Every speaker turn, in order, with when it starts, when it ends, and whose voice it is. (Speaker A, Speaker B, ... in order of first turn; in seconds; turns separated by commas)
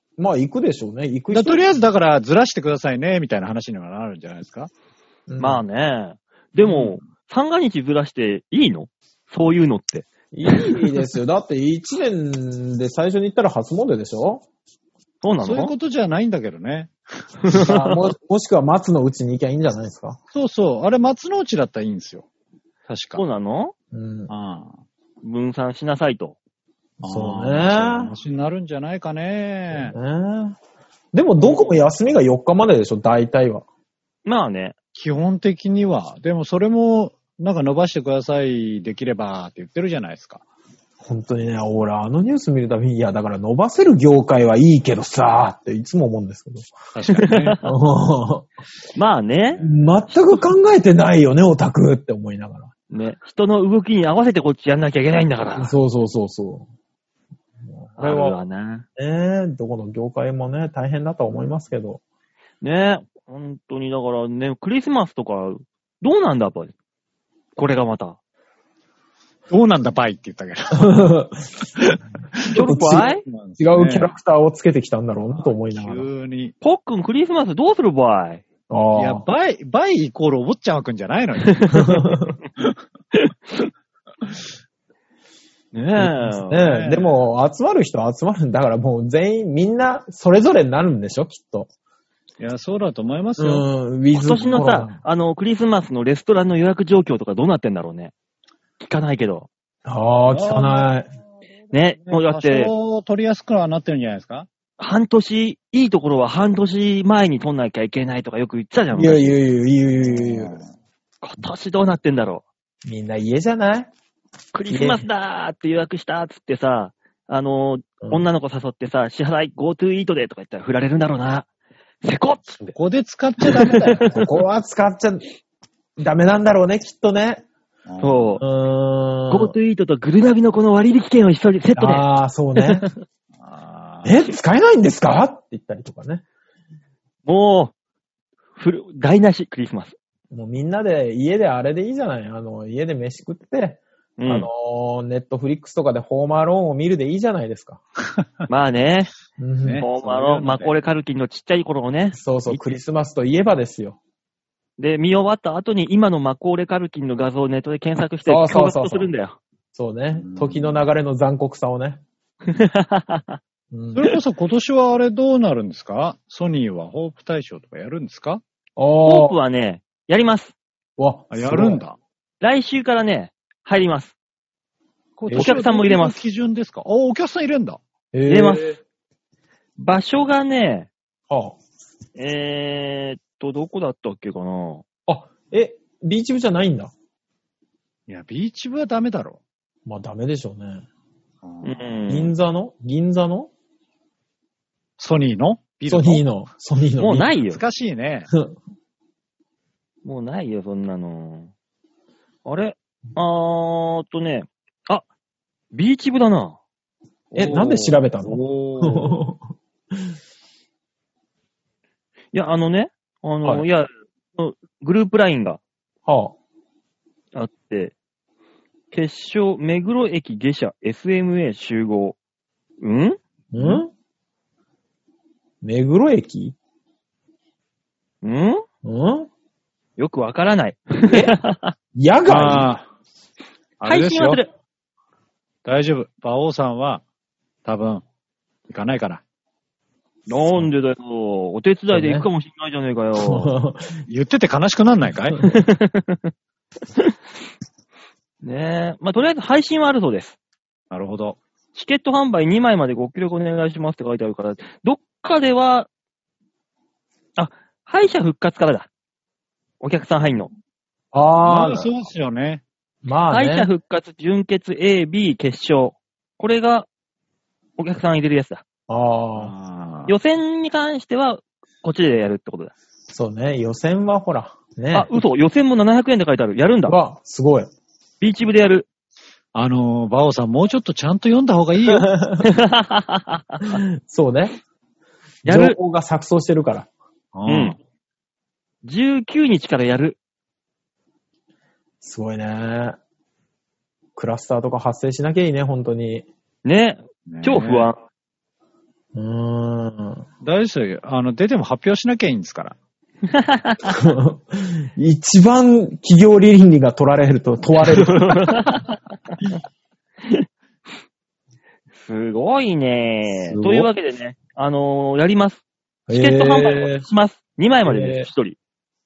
Speaker A: 0.2-1.6, Speaker B: 1.3-4.7, Speaker A: 5.3-5.6, Speaker C: 5.4-11.0, Speaker B: 6.6-7.0, Speaker A: 10.3-14.4, Speaker C: 15.2-15.7, Speaker B: 15.4-17.4, Speaker C: 17.4-18.0, Speaker A: 17.5-20.2, Speaker B: 20.3-22.2, Speaker B: 22.9-23.2, Speaker C: 23.1-23.7, Speaker A: 23.9-24.3, Speaker B: 24.3-24.8, Speaker C: 25.2-26.4, Speaker B: 27.0-29.9, Speaker A: 27.0-28.1, Speaker A: 29.7-30.6, Speaker A: 31.1-33.6, Speaker B: 31.4-31.7, Speaker C: 34.2-34.7, Speaker B: 34.9-40.4, Speaker A: 41.0-46.7, Speaker B: 46.9-47.6, Speaker C: 47.1-47.7, Speaker A: 47.6-48.5, Speaker C: 48.9-50.4, Speaker A: 49.6-52.7, Speaker C: 52.9-55.7, Speaker A: 55.5-56.7, Speaker A: 57.6-58.4, Speaker C: 58.0-58.9, Speaker A: 59.0-62.0, Speaker C: 62.6-66.7, Speaker C: 67.5-68.2, Speaker B: 69.5-71.1, Speaker A: 70.7-71.8, Speaker C: 72.5-73.2, Speaker A: 72.5-73.1, Speaker B: 73.0-74.1, Speaker A: 73.6-76.1, Speaker B: 75.4-76.5, Speaker C: 76.6-78.4, Speaker A: 78.7-79.2, Speaker B: 78.9-81.8, Speaker C: 81.5-82.1, Speaker A: 81.7-82.3, Speaker C: 83.1-83.7, Speaker C: 85.7-86.7, Speaker A: 86.0-91.7, Speaker B: 86.6-87.2, Speaker B: 92.4-93.7, Speaker A: 93.4-95.0, Speaker C: 94.1-98.1, Speaker C: 98.8-99.5, Speaker A: 99.8-101.1, Speaker B: 100.3-100.9, Speaker C: 101.7-102.7, Speaker B: 102.0-104.5, Speaker C: 104.8-109.4, Speaker A: 108.9-110.6, Speaker B: 110.0-110.7, Speaker C: 111.2-112.4, Speaker A: 112.8-113.9, Speaker C: 114.5-121.5, Speaker A: 114.7-115.0, Speaker C: 122.0-122.7, Speaker B: 122.6-124.2, Speaker C: 123.4-124.1, Speaker A: 124.1-125.2, Speaker A: 126.0-127.4, Speaker B: 127.9-128.4, Speaker C: 128.0-128.4, Speaker A: 128.4-129.6, Speaker C: 129.3-132.1, Speaker A: 131.8-132.9, Speaker C: 132.6-132.9, Speaker B: 133.4-134.1, Speaker A: 134.0-136.2, Speaker C: 137.3-137.7, Speaker C: 138.6-139.9, Speaker A: 140.3-147.8, Speaker C: 144.2-144.5, Speaker C: 148.5-149.1, Speaker A: 149.4-149.8, Speaker B: 149.6-150.7, Speaker C: 149.8-152.6, Speaker A: 152.1-154.0, Speaker C: 154.8-159.4, Speaker A: 158.2-159.1, Speaker A: 159.7-162.0, Speaker B: 160.2-160.8, Speaker C: 162.5-163.4, Speaker A: 163.7-164.1, Speaker B: 163.9-168.4, Speaker A: 168.8-169.4, Speaker C: 169.1-170.5, Speaker A: 171.0-171.8, Speaker B: 171.3-172.0, Speaker C: 172.4-174.1, Speaker B: 175.2-177.8, Speaker A: 175.3-175.6, Speaker C: 175.3-176.2, Speaker A: 178.1-178.7, Speaker C: 178.3-178.8, Speaker C: 179.8-180.9, Speaker A: 181.3-181.6, Speaker C: 182.2-184.8, Speaker A: 185.1-186.9, Speaker B: 188.1-189.4, Speaker A: 189.9-190.8, Speaker B: 191.4-192.0, Speaker C: 191.6-192.3, Speaker A: 192.1-193.5, Speaker B: 195.0-196.2, Speaker A: 195.9-197.3, Speaker C: 197.0-197.6, Speaker B: 197.5-198.3, Speaker C: 200.0-201.5, Speaker C: 202.4-205.1, Speaker C: 205.7-206.6, Speaker C: 207.3-207.9, Speaker A: 207.3-209.4, Speaker B: 208.2-209.2, Speaker C: 212.3-215.6, Speaker A: 216.1-216.4, Speaker C: 217.3-217.9, Speaker C: 218.9-222.2, Speaker C: 222.8-223.2, Speaker A: 223.5-223.9, Speaker A: 225.6-226.6, Speaker C: 228.2-228.6, Speaker A: 228.8-229.3, Speaker C: 230.0-231.7, Speaker A: 231.1-231.4, Speaker A: 231.9-232.7, Speaker B: 232.3-232.9, Speaker B: 233.8-234.4, Speaker C: 233.8-234.5, Speaker B: 235.6-237.0, Speaker B: 237.6-238.0, Speaker B: 238.7-239.2, Speaker C: 240.3-243.5, Speaker A: 241.9-242.3, Speaker A: 243.2-244.0, Speaker B: 244.1-245.4, Speaker C: 245.4-246.3, Speaker C: 248.4-250.4, Speaker B: 250.9-251.4, Speaker C: 251.7-255.9, Speaker C: 257.4-258.9, Speaker C: 259.8-260.5, Speaker A: 261.1-261.9, Speaker B: 261.4-262.6, Speaker A: 263.0-263.7, Speaker C: 263.3-266.9, Speaker C: 267.8-268.6, Speaker A: 268.9-269.5, Speaker B: 269.4-270.1, Speaker C: 270.1-272.7, Speaker A: 273.1-275.1, Speaker C: 274.9-277.0, Speaker A: 276.9-277.7, Speaker C: 278.2-278.9, Speaker B: 279.5-282.1, Speaker A: 281.9-282.5, Speaker C: 282.4-283.8, Speaker A: 283.8-284.6, Speaker C: 285.4-285.8, Speaker A: 285.4-286.9, Speaker B: 287.3-287.8, Speaker C: 287.5-287.8, Speaker C: 288.8-290.2, Speaker A: 292.0-293.0, Speaker A: 294.1-296.3, Speaker C: 296.6-298.0, Speaker B: 297.3-297.9, Speaker A: 299.1-300.2, Speaker B: 300.4-302.8, Speaker C: 303.3-304.0, Speaker A: 303.8-308.6, Speaker C: 307.9-308.9, Speaker C: 312.0-318.6, Speaker A: 313.3-313.9, Speaker A: 316.1-317.0, Speaker A: 317.8-318.3